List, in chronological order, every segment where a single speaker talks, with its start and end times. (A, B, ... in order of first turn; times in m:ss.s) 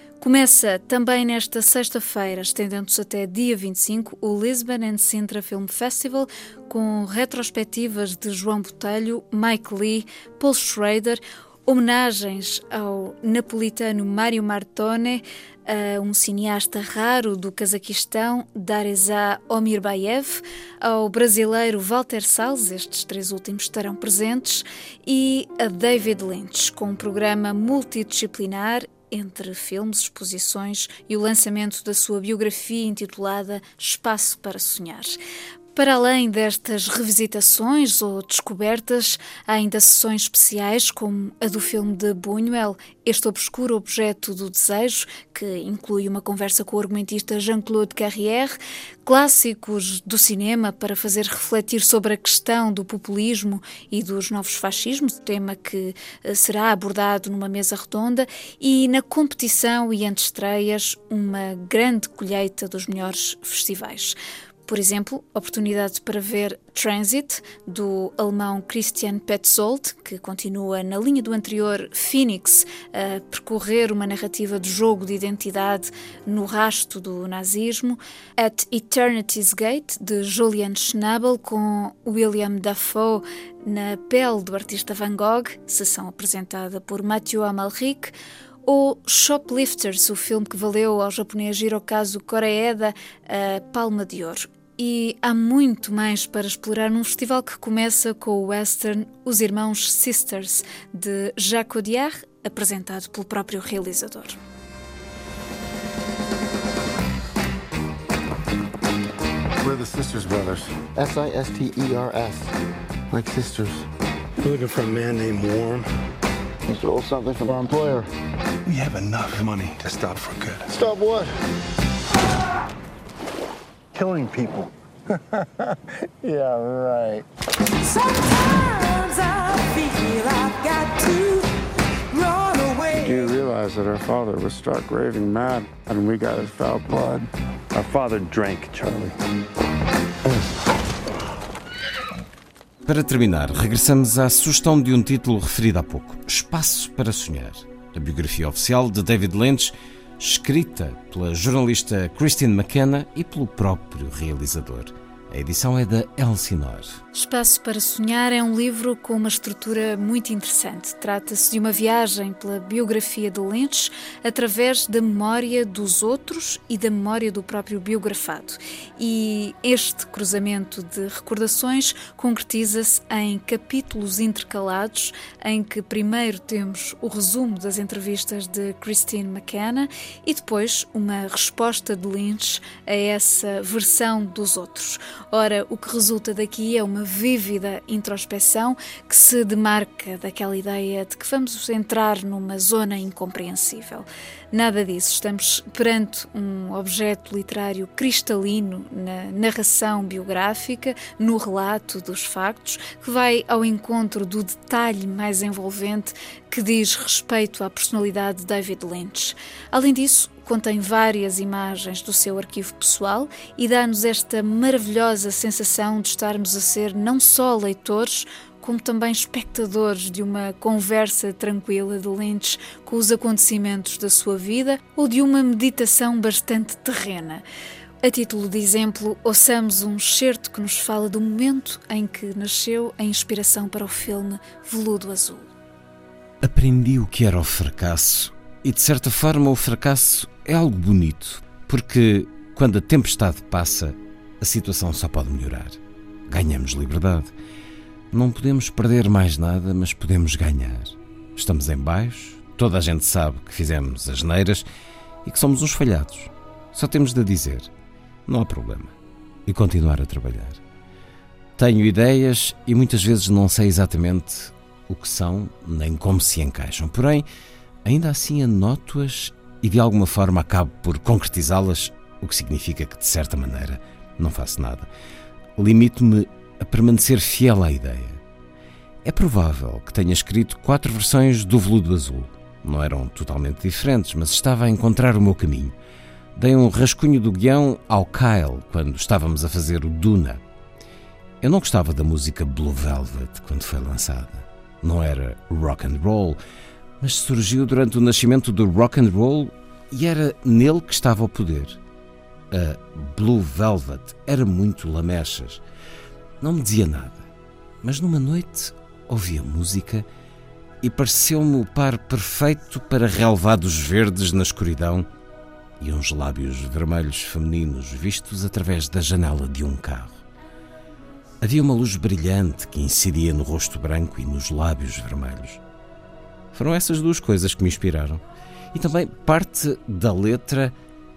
0:00.2-0:35.2 A
0:35.8-1:44.4 A
1:49.6-1:52.5 B
1:53.1-1:53.8 B
1:54.4-1:55.9 C
1:56.7-1:58.1 B
1:58.7-2:00.8 C
2:00.7-2:01.3 B
2:03.9-2:04.7 C
2:06.2-2:07.1 B
2:08.0-2:11.4 D
2:12.1-2:13.3 D
2:13.0-2:19.2 B
2:22.8-2:36.9 E
2:37.1-3:47.4 A
3:48.0-3:55.5 A
3:56.4-4:07.3 E
4:08.1-4:14.6 E
4:15.2-4:17.7 E
4:18.3-4:18.9 E
4:19.5-4:20.6 E
4:21.6-4:27.2 E
4:27.8-4:34.9 E
4:35.6-4:38.2 E
4:39.0-4:45.8 E
4:46.4-4:50.4 E
4:51.4-4:56.4 E
4:57.0-5:01.8 E
5:02.5-5:05.6 E
5:06.4-5:07.3 E
5:07.8-5:10.1 E
5:10.8-5:15.1 E
5:15.8-5:20.2 E
5:21.4-5:25.6 E
5:26.5-5:28.2 E
5:28.7-5:30.8 E